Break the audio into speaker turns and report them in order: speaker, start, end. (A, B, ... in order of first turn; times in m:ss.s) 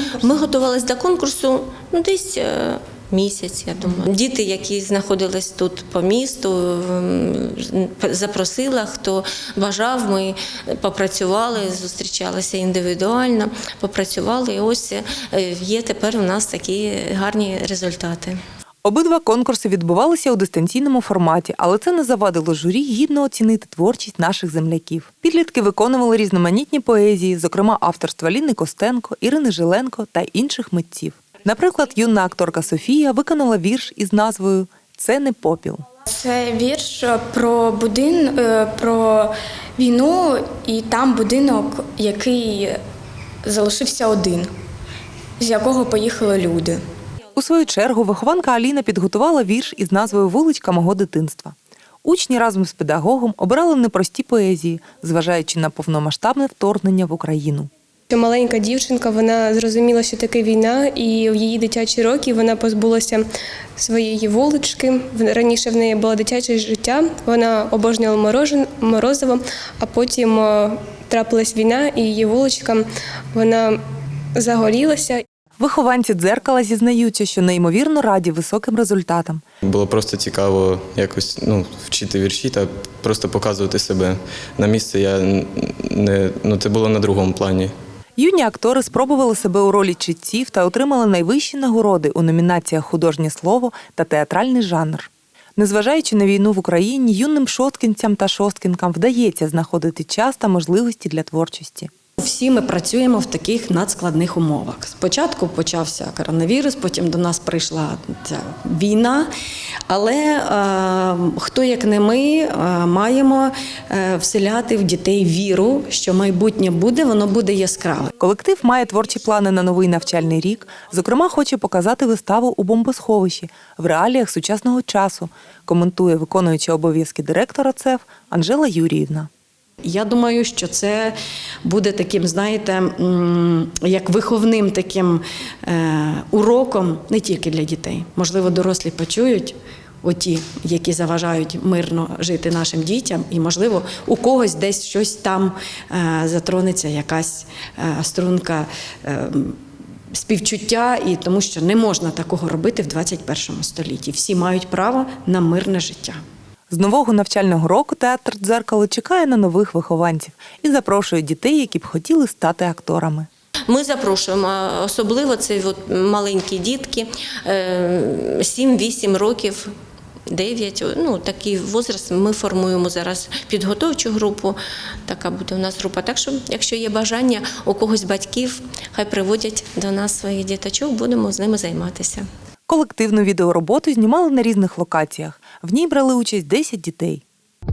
0:00.2-0:18.4 A
0:18.8-0:35.8 B
0:36.2-0:42.8 C
0:43.5-0:44.5 C
0:45.4-0:46.8 C
0:47.4-0:57.7 B
0:58.1-1:03.2 D
1:03.8-1:13.8 D
1:14.4-1:15.2 D
1:15.6-1:19.4 B
1:19.6-1:27.7 E
1:28.2-1:41.9 B
1:42.2-1:49.3 F
1:49.9-1:58.1 F
1:58.2-2:09.3 B
2:09.8-2:29.6 F
2:30.1-2:36.2 F
2:36.7-2:43.3 B
2:43.7-2:49.7 A
2:50.3-3:02.3 A
3:02.7-3:07.2 B